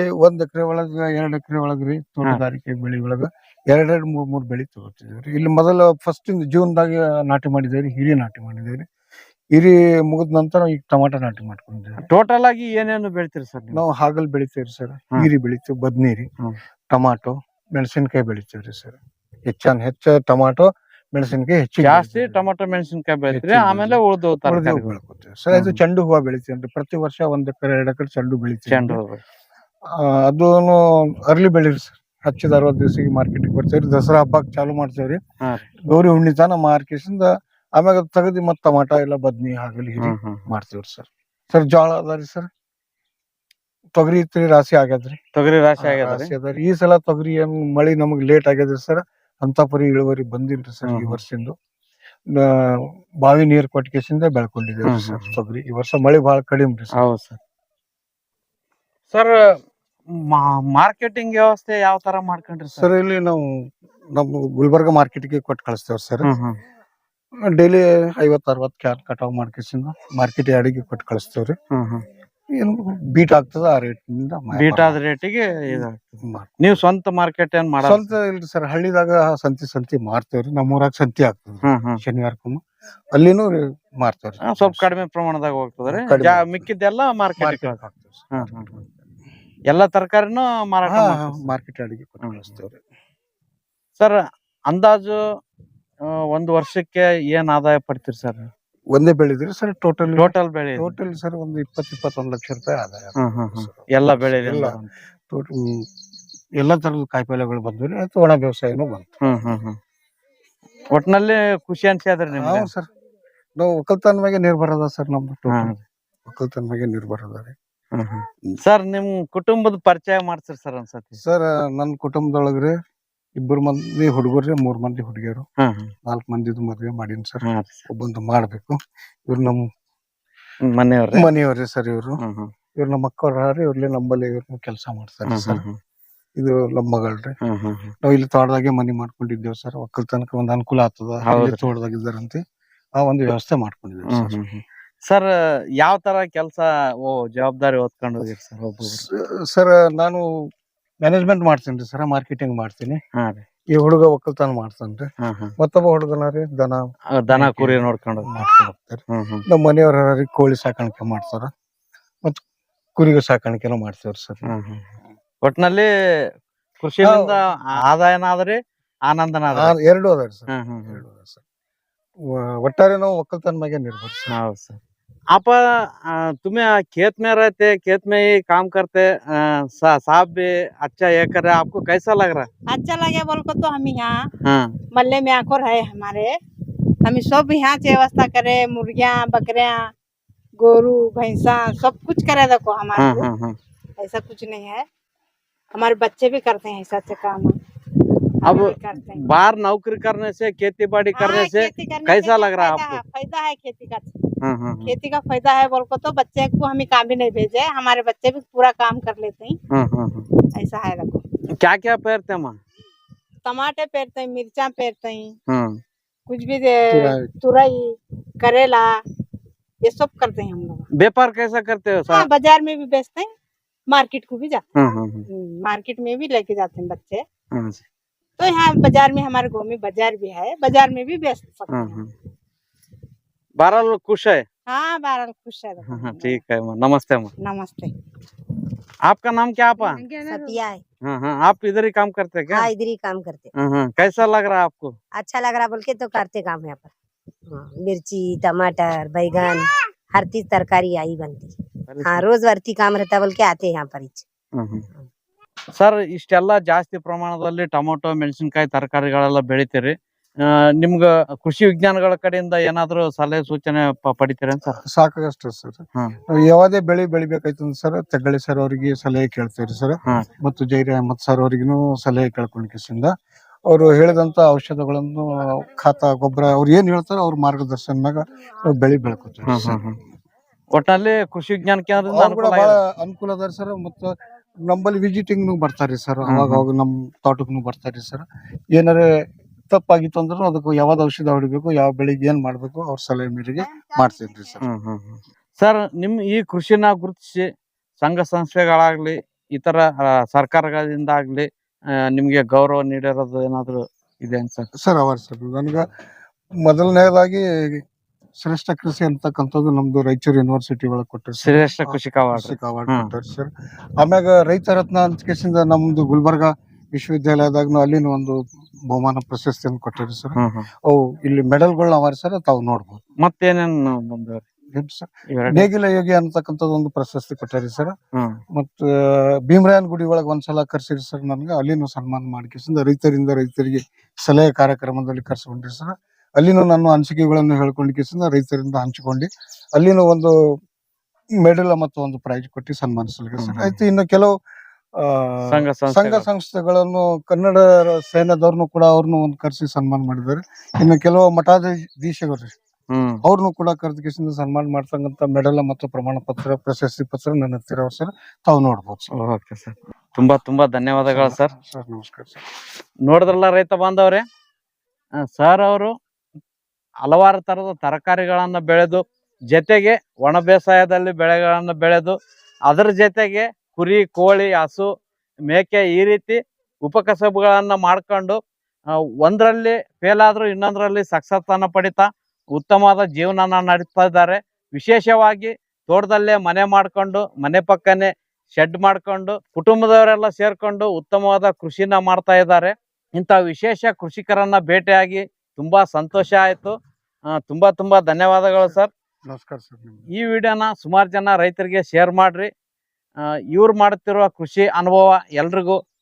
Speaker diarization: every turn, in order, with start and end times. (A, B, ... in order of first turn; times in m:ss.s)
0:00.2-0:08.8 A
0:09.5-0:12.0 A
0:12.0-0:13.8 B
0:13.7-0:16.3 A
0:16.9-0:22.4 A
0:21.8-0:24.9 B
0:23.3-0:29.0 A
0:25.5-0:25.8 B
0:28.7-0:29.2 B
0:30.0-0:35.2 A
0:35.9-0:42.5 A
0:40.0-0:40.4 B
0:44.0-0:45.2 A
0:45.4-0:46.3 B
0:45.8-0:51.5 A
0:50.9-0:51.2 B
0:52.3-0:57.0 A
0:54.9-0:55.3 B
0:57.0-0:57.4 B
0:59.1-0:59.4 B
1:00.2-1:02.9 B
1:02.8-1:03.4 A
1:04.1-1:06.3 A
1:06.2-1:06.5 B
1:07.5-1:11.6 A
1:11.7-1:12.0 B
1:12.6-1:15.0 A
1:14.6-1:18.1 B
1:15.7-1:16.7 A
1:17.8-1:22.6 A
1:21.6-1:22.0 B
1:23.1-1:24.9 A
1:24.5-1:27.8 B
1:25.9-1:26.7 A
1:27.4-1:29.0 A
1:28.4-1:28.7 B
1:29.7-1:31.5 B
1:30.8-1:32.8 A
1:32.2-1:32.5 B
1:34.7-1:35.2 B
1:36.3-1:38.5 B
1:38.9-1:45.8 A
1:40.1-1:40.9 B
1:43.2-1:44.8 B
1:46.6-1:49.1 A
1:49.2-1:49.8 B
1:50.9-1:52.7 B
1:52.3-1:52.9 A
1:53.6-1:55.7 A
1:55.5-1:55.8 B
1:56.2-1:57.6 A
1:58.0-2:01.2 B
2:01.2-2:02.7 A
2:03.4-2:05.5 A
2:05.6-2:05.9 B
2:06.0-2:08.8 A
2:07.4-2:07.8 B
2:09.3-2:09.6 A
2:10.6-2:11.2 B
2:11.1-2:12.2 A
2:12.2-2:12.5 B
2:12.8-2:15.6 A
2:15.3-2:15.8 B
2:16.4-2:17.3 A
2:17.4-2:17.9 B
2:18.0-2:22.4 A
2:21.3-2:21.7 B
2:23.0-2:24.4 A
2:24.1-2:25.3 B
2:25.8-2:29.0 B
2:28.8-2:30.2 A
2:31.0-2:33.0 A
2:33.2-2:33.4 B
2:33.7-2:35.1 A
2:35.2-2:35.5 B
2:35.6-2:41.5 A
2:37.2-2:38.3 B
2:39.1-2:39.4 B
2:43.0-2:44.5 A
2:44.5-2:44.8 B
2:45.4-2:45.9 B
2:46.8-2:48.6 B
2:47.0-2:47.8 A
2:49.1-2:49.7 B
2:49.5-2:51.4 A
2:50.5-2:51.0 B
2:52.3-2:54.4 A
2:54.3-2:54.8 B
2:55.3-3:02.5 B
3:02.7-3:04.2 C
3:04.4-3:04.7 B
3:04.9-3:06.3 C
3:07.0-3:09.8 C
3:10.6-3:13.2 C
3:13.0-3:13.6 B
3:14.0-3:14.8 C
3:15.7-3:17.5 C
3:18.4-3:19.2 C
3:18.4-3:23.0 B
3:21.1-3:24.1 C
3:24.4-3:24.9 B
3:24.8-3:29.6 C
3:29.7-3:30.3 B
3:30.5-3:31.2 C
3:31.6-3:32.6 B
3:33.4-3:35.3 C
3:35.5-3:35.8 B
3:36.3-3:38.9 C
3:36.9-3:37.3 A
3:39.8-3:40.8 C
3:41.0-3:42.3 B
3:42.1-3:43.3 C
3:43.9-3:44.6 C
3:44.8-3:45.2 B
3:45.3-3:47.2 C
3:47.5-3:47.8 B
3:48.4-3:52.0 C
3:51.7-3:52.1 B
3:53.6-3:54.4 B
3:54.7-3:56.4 C
3:55.9-3:57.3 B
3:57.4-3:57.9 C
3:59.1-4:00.0 B
3:59.8-4:00.6 C
4:00.2-4:00.8 D
4:01.1-4:02.7 B
4:02.5-4:03.5 D
4:03.6-4:04.9 B
4:05.1-4:06.9 D
4:07.4-4:14.2 D
4:11.9-4:12.2 B
4:14.6-4:14.8 B
4:15.8-4:19.9 B
4:20.8-4:24.8 B
4:24.8-4:33.1 A
4:33.7-4:39.8 A
4:39.4-4:40.0 B
4:40.7-4:42.8 B
4:42.0-4:48.2 A
4:46.3-4:46.6 B
4:48.8-4:49.0 A
4:49.7-4:54.6 A
4:54.6-4:57.4 B
4:58.0-5:01.5 B
5:02.1-5:04.7 B
5:04.8-5:05.8 A
5:06.6-5:07.8 A
5:08.4-5:23.0 A
5:11.4-5:13.1 B
5:20.4-5:20.7 B
5:23.2-5:24.4 B
5:24.7-5:27.9 A
5:25.3-5:25.7 B
5:28.5-5:40.3 A
5:41.4-5:44.3 A
5:43.4-5:43.8 B
5:45.0-5:52.5 A
5:45.5-5:46.3 B
5:52.9-5:53.2 B
5:53.2-5:59.1 A
5:59.2-6:01.5 B
6:01.0-6:02.4 A
6:03.1-6:04.2 B
6:05.3-6:05.9 B
6:07.0-6:09.0 B
6:09.5-6:12.1 B
6:12.7-6:14.9 B
6:15.5-6:18.4 B
6:19.2-6:36.7 B
6:37.4-6:38.9 B
6:39.3-6:40.0 A
6:40.1-6:42.5 B
6:43.5-6:45.8 B